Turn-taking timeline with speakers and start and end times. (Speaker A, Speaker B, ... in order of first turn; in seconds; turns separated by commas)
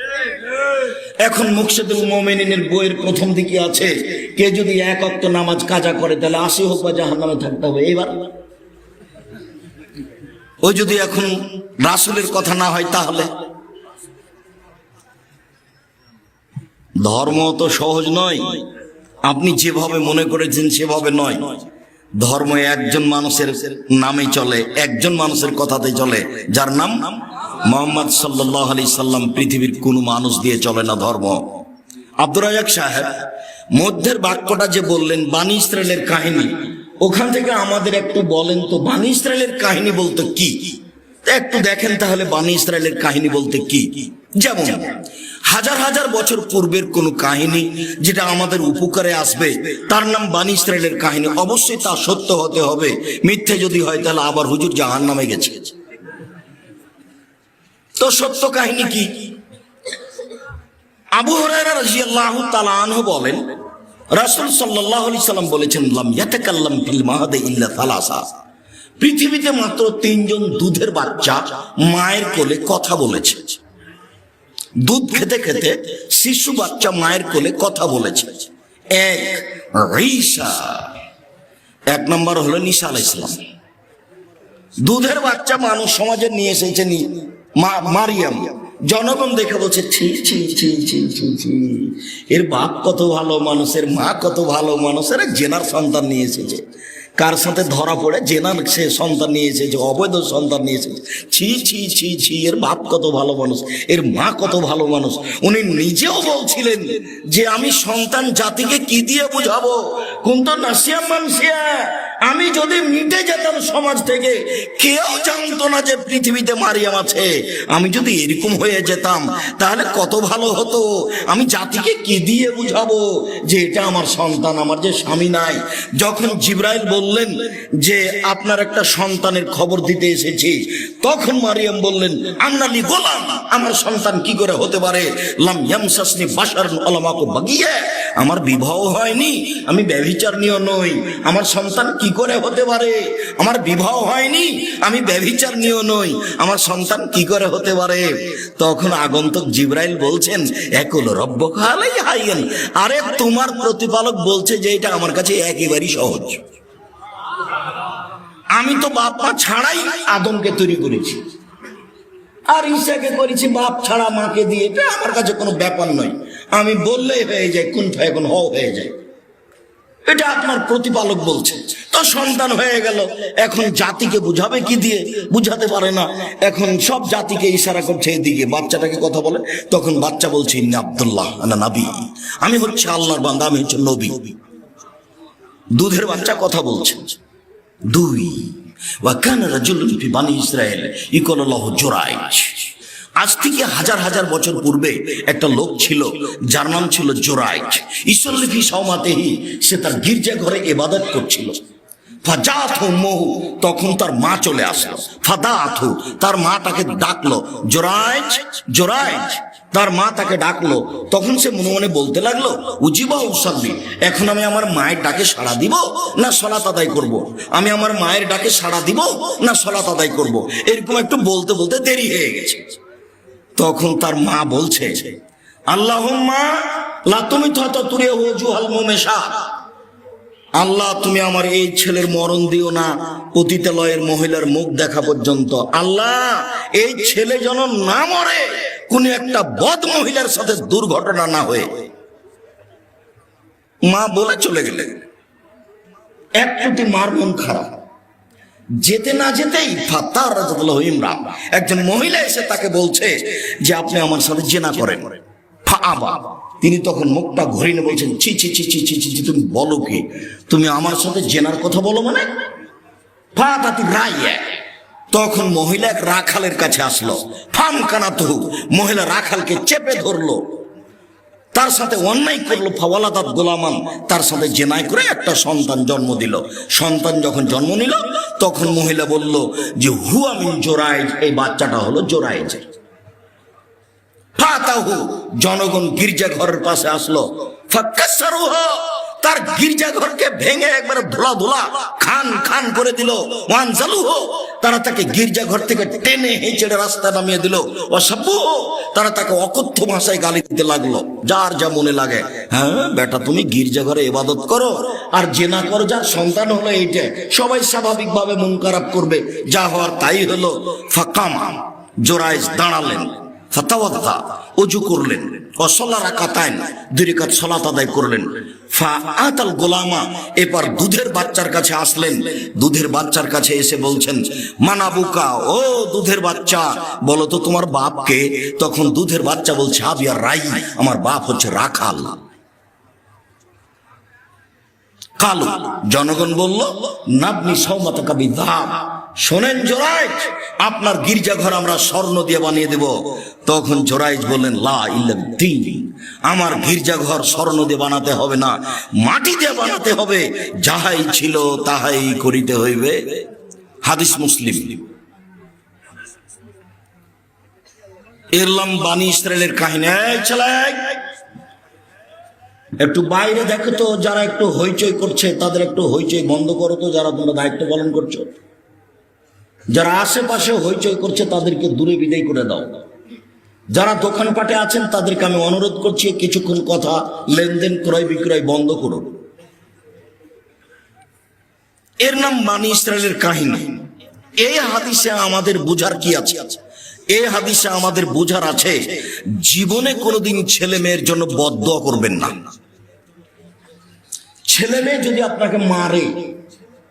Speaker A: 0.7-8.3, Speaker A: 10.6-13.3, Speaker A: 17.0-18.7, Speaker A: 19.2-21.6, Speaker A: 22.2-31.6, Speaker A: 32.2-55.7, Speaker A: 58.0-59.3, Speaker A: 61.1-63.4, Speaker A: 64.1-68.3, Speaker A: 69.0-73.6, Speaker A: 74.8-80.9, Speaker A: 81.9-83.4, Speaker A: 84.8-96.6, Speaker A: 97.2-156.4, Speaker A: 158.5-161.2, Speaker A: 162.5-168.9, Speaker A: 170.1-184.4, Speaker A: 185.7-187.2, Speaker A: 187.9-201.6, Speaker A: 202.2-222.8, Speaker A: 223.6-225.2, Speaker A: 225.7-229.5, Speaker A: 230.6-241.8, Speaker A: 243.8-245.0, Speaker A: 246.4-247.8, Speaker A: 248.8-262.3, Speaker A: 263.3-264.5, Speaker A: 265.1-270.5, Speaker A: 271.5-282.6, Speaker A: 284.4-332.2, Speaker A: 335.2-353.2, Speaker A: 353.8-354.9, Speaker A: 358.3-361.0, Speaker A: 362.8-368.3, Speaker A: 369.7-372.8, Speaker A: 373.7-379.2, Speaker A: 382.0-383.8, Speaker A: 384.4-392.5, Speaker A: 394.5-396.3